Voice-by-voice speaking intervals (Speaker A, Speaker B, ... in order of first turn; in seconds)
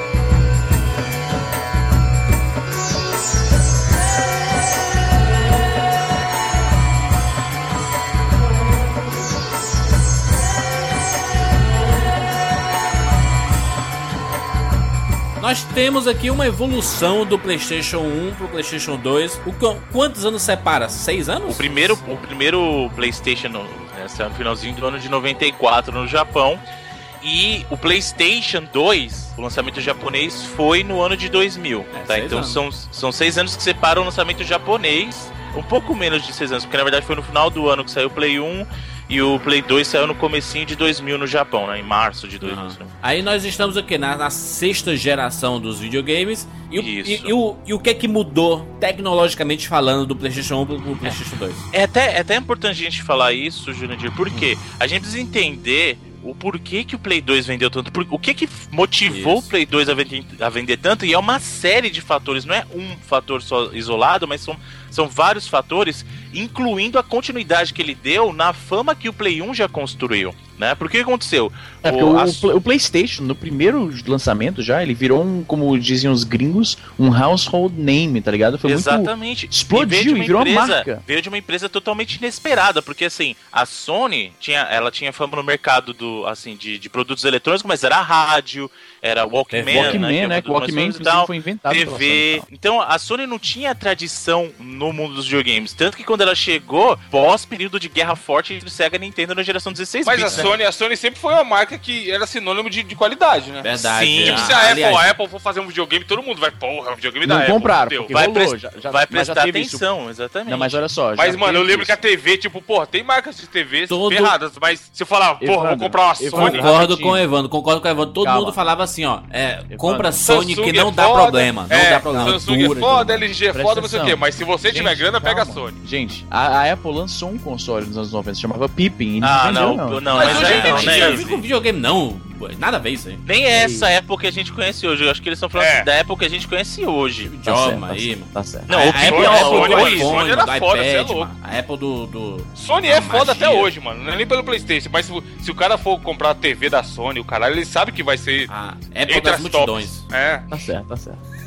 Speaker A: 15.4-22.0, 31.9-32.6, 42.4-51.7, 59.1-59.5, 89.5-90.0, 103.6-105.1, 113.9-114.4, 116.3-123.3, 130.2-133.2, 137.3-143.7, 148.5-150.0
Speaker B: 21.5-26.6, 27.2-42.9, 46.8-47.3, 51.7-72.5, 78.7-100.6, 104.0-104.6, 108.1-110.8, 129.2-131.4, 133.3-137.3, 138.7-140.3
Speaker C: 71.8-81.0, 89.7-92.5, 107.2-109.9, 110.5-112.0, 115.4-117.2, 118.2-118.6, 119.7-120.2, 122.1-122.4, 123.5-131.0, 133.5-133.9, 137.5-139.6, 150.5-151.2
Speaker D: 100.0-108.1, 111.2-116.6, 120.2-125.8, 130.2-131.2, 135.6-135.9, 139.1-141.3, 142.6-148.5, 149.1-150.5